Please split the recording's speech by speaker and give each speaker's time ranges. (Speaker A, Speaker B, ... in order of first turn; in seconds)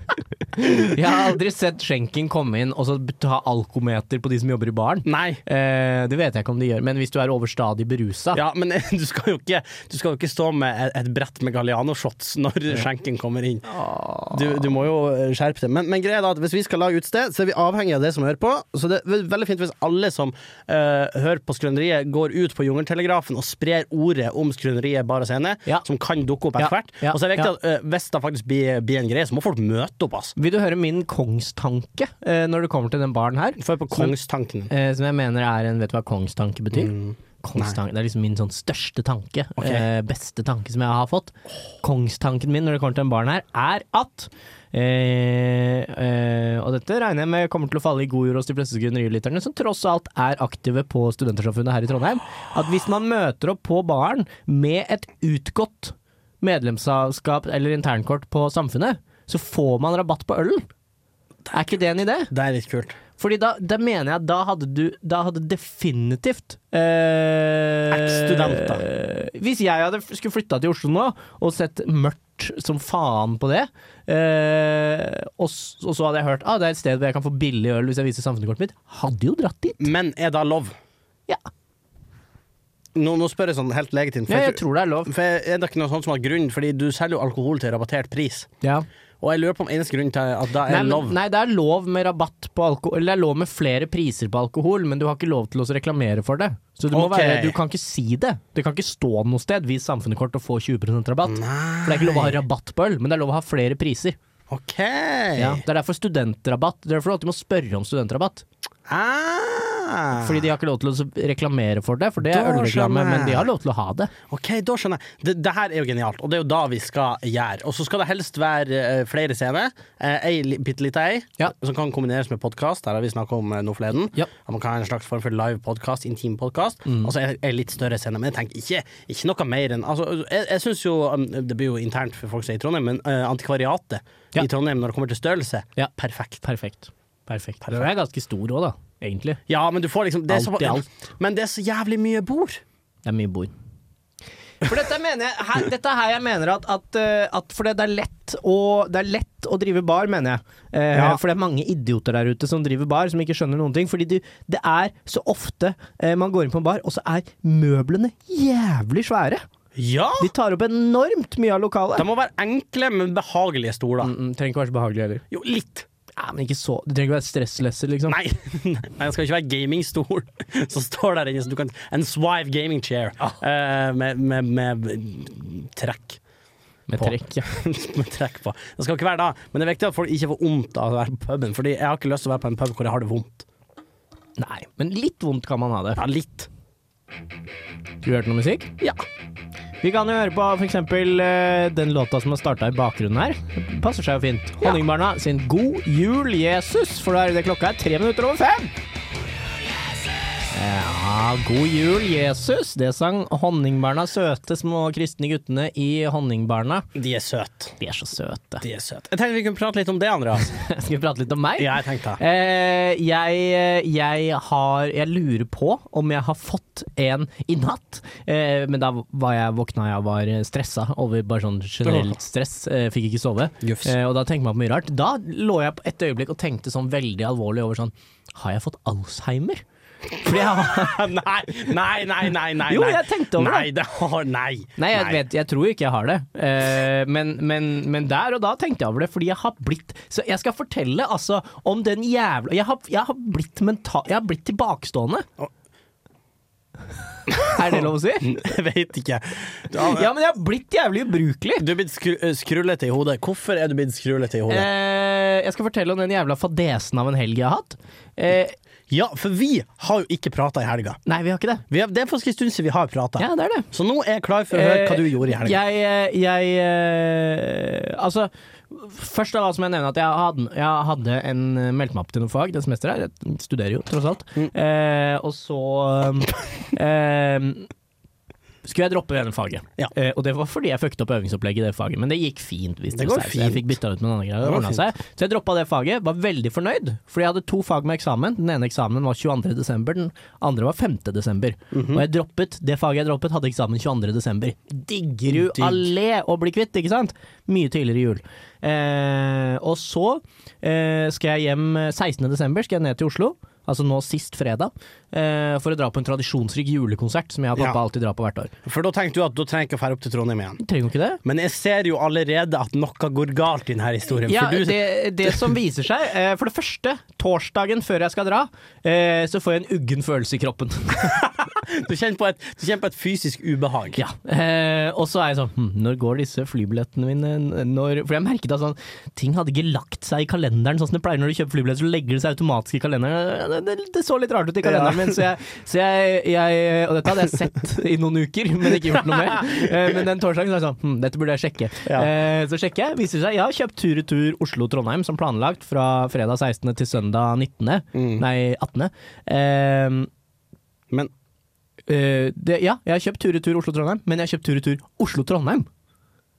Speaker A: 0.5-8.4, 13.7-14.4, 26.6-27.5, 30.4-34.1, 34.7-60.6, 61.5-62.3, 63.2-79.9, 84.3-85.1, 90.7-104.2, 105.4-108.4, 110.2-114.1, 126.9-127.1, 136.4-139.4, 140.3-140.8, 143.1-143.5, 144.6-159.4, 160.2-162.1, 164.0-165.2, 166.2-168.2, 176.9-177.5, 184.4-186.0, 188.0-188.7, 189.8-198.7, 200.5-206.9, 207.8-208.6, 210.5-229.6, 230.2-231.1, 232.7-233.7, 234.8-245.3, 247.4-248.4, 249.8-251.7, 254.5-258.6, 261.1-261.6, 263.2-263.7, 264.5-277.7, 278.6-308.5, 310.6-311.2, 314.2-321.2, 324.0-350.1, 351.9-355.7
Speaker B: 5.0-5.4, 8.3-13.7, 14.3-30.4, 33.6-34.7, 36.7-37.8, 39.6-39.9, 62.3-63.0, 67.9-68.8, 79.8-80.8, 83.0-88.5, 89.2-91.2, 96.9-97.6, 101.3-102.4, 104.5-105.6, 108.9-110.5, 112.2-113.5, 114.3-136.4, 139.5-142.6, 150.9-151.2, 159.8-160.3, 162.0-164.1, 165.3-165.9, 168.1-176.2, 177.0-183.5, 186.0-186.5, 206.9-207.8, 208.6-210.5, 211.6-212.2, 221.8-222.2, 223.6-224.0, 230.2-235.2, 247.3-250.1, 251.6-254.7, 258.9-261.0, 261.7-265.6, 282.9-283.8, 284.4-284.9, 291.7-292.1, 295.3-295.9, 308.6-310.6, 311.2-315.5, 321.0-324.0, 334.6-335.2, 347.9-348.2